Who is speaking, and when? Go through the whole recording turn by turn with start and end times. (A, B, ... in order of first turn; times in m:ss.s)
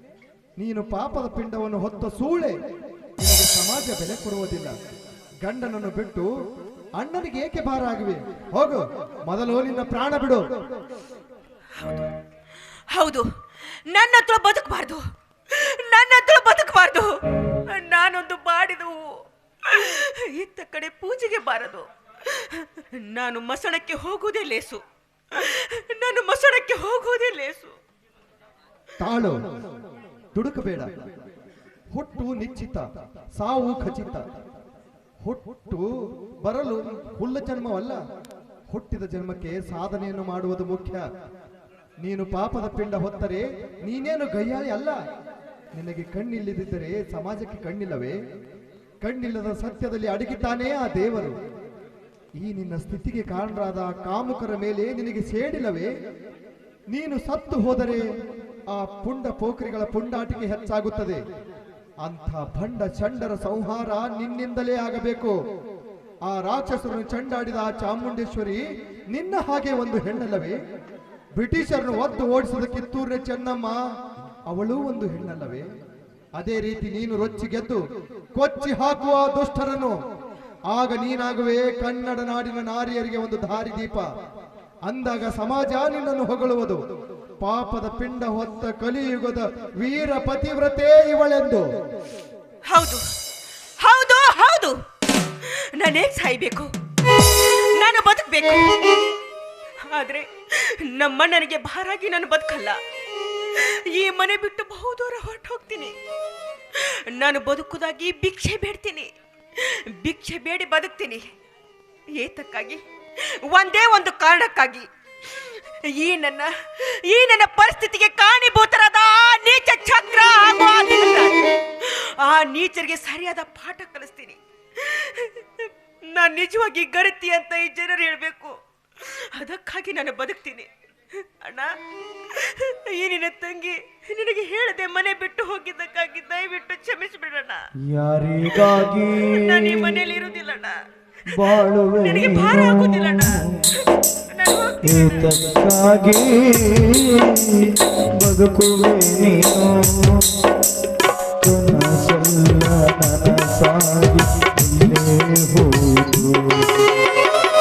0:00.6-0:02.5 A
0:03.2-0:04.7 A
0:05.4-0:06.3 A
0:07.0-0:10.4 A
0:11.8-0:12.0 B
0:12.9-0:13.2 B
0:13.9-0:17.1 B
0:17.7-0:19.0 B
0:19.6-0:27.7 B
0:29.0-0:29.4 A
0:30.3-0:30.9 A
0:31.9-0:32.8 A
0:33.4-0:34.2 A
0:35.2-0:35.8 A
0:36.4-0:38.0 A
0:38.7-0:41.0 A
0:42.0-0:45.0 A
0:45.7-0:48.1 A
0:49.0-0:51.3 A
0:52.4-0:55.9 A
0:56.9-0:58.0 A
0:58.7-1:01.2 A
1:02.0-1:05.3 A
1:06.3-1:08.6 A
1:09.1-1:10.5 A
1:11.4-1:13.8 A
1:14.5-1:15.6 A
1:16.4-1:17.8 A
1:18.4-1:20.0 A
1:20.7-1:24.0 A
1:24.9-1:26.8 A
1:27.4-1:31.6 A
1:32.7-1:33.0 B
1:33.8-1:34.7 B
1:35.4-1:36.7 B
1:37.2-1:38.8 B
1:39.9-1:42.8 B
1:43.5-1:45.9 B
1:46.7-1:51.2 B
1:52.2-1:52.8 B
1:53.4-2:10.7 B
2:11.4-2:11.7 B
2:12.3-2:17.6 B
2:17.9-2:20.0 C
2:18.6-2:20.7 B
2:21.3-2:23.6 C
2:22.0-2:23.4 B
2:24.3-2:25.3 B
2:24.8-2:30.4 C
2:31.4-2:36.9 C